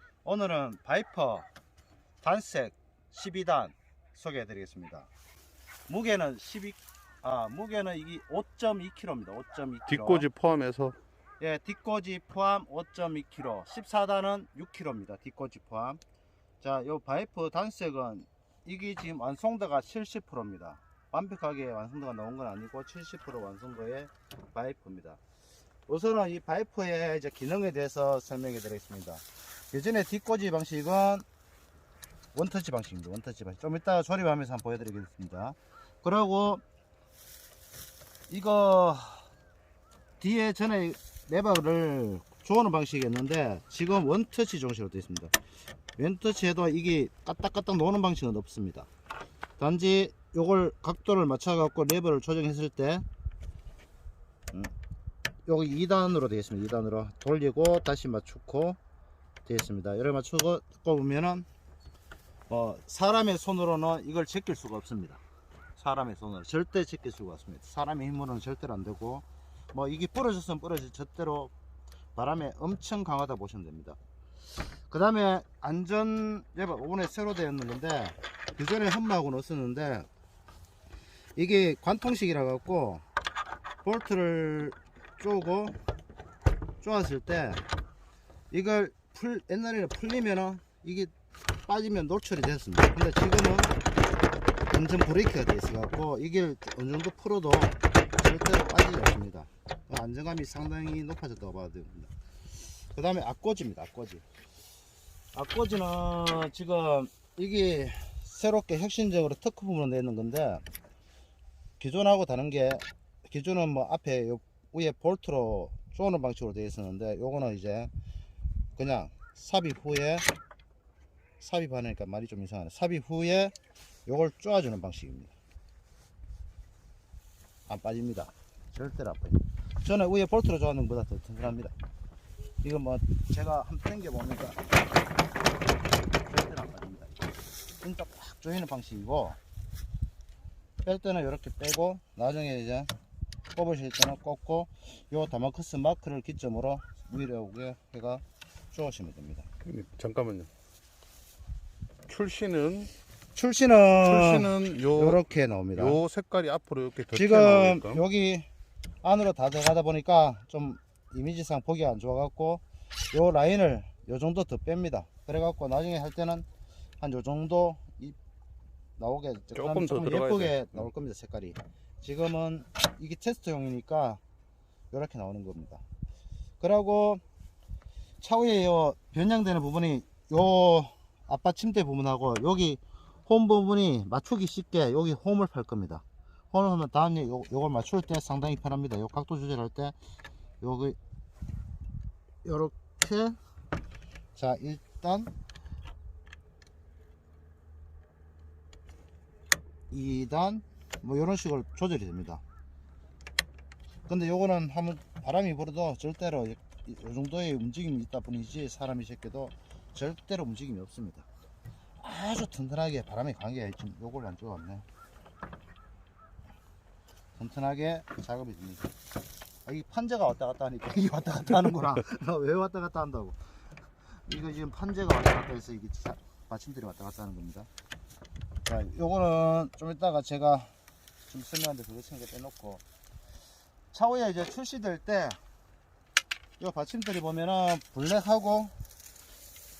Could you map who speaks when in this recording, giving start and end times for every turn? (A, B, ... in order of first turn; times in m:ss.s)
0:00.2-0:01.5 A
0:02.2-0:05.1 A
0:05.9-0:10.2 A
0:09.9-0:11.0 B
0:11.4-0:16.0 A
0:16.6-0:25.2 A
0:25.9-0:31.2 A
0:32.3-0:36.6 A
0:38.3-0:39.3 A
0:40.2-0:45.3 A
0:46.0-0:48.9 A
0:49.6-0:53.0 A
0:55.4-0:58.8 A
0:59.4-1:01.5 A
1:02.5-1:05.2 A
1:05.8-1:11.5 A
1:12.2-1:14.0 A
1:14.9-1:20.1 A
1:21.4-1:23.0 A
1:23.8-1:25.8 A
1:26.8-1:27.6 A
1:28.5-1:31.1 A
1:31.6-1:33.7 A
1:34.7-1:42.1 A
1:42.9-1:44.2 A
1:45.3-1:50.6 A
1:51.8-1:57.9 A
1:58.8-2:00.3 A
2:01.4-2:03.5 A
2:04.0-2:05.3 A
2:07.7-2:11.7 A
2:12.6-2:14.6 A
2:16.2-2:17.2 A
2:17.8-2:19.4 A
2:20.8-2:22.9 A
2:23.5-2:29.5 A
2:29.6-2:30.5 B
2:32.1-2:32.9 B
2:33.3-2:36.0 A
2:34.0-2:38.0 B
2:37.1-2:38.5 A
2:39.0-2:46.4 A
2:47.0-2:48.2 A
2:49.0-2:54.2 A
2:49.5-2:50.8 B
2:54.9-2:55.8 A
2:56.6-2:57.2 A
2:58.2-3:09.9 A
3:10.6-3:11.0 A
3:12.4-3:13.4 A
3:14.3-3:15.3 A
3:19.9-3:22.4 A
3:24.1-3:31.3 A
3:32.0-3:34.8 A
3:37.4-3:38.9 A
3:39.6-3:43.4 A
3:44.2-3:47.7 A
3:48.6-3:50.7 A
3:51.3-3:52.8 A
3:53.9-3:55.4 A
3:56.6-3:58.7 A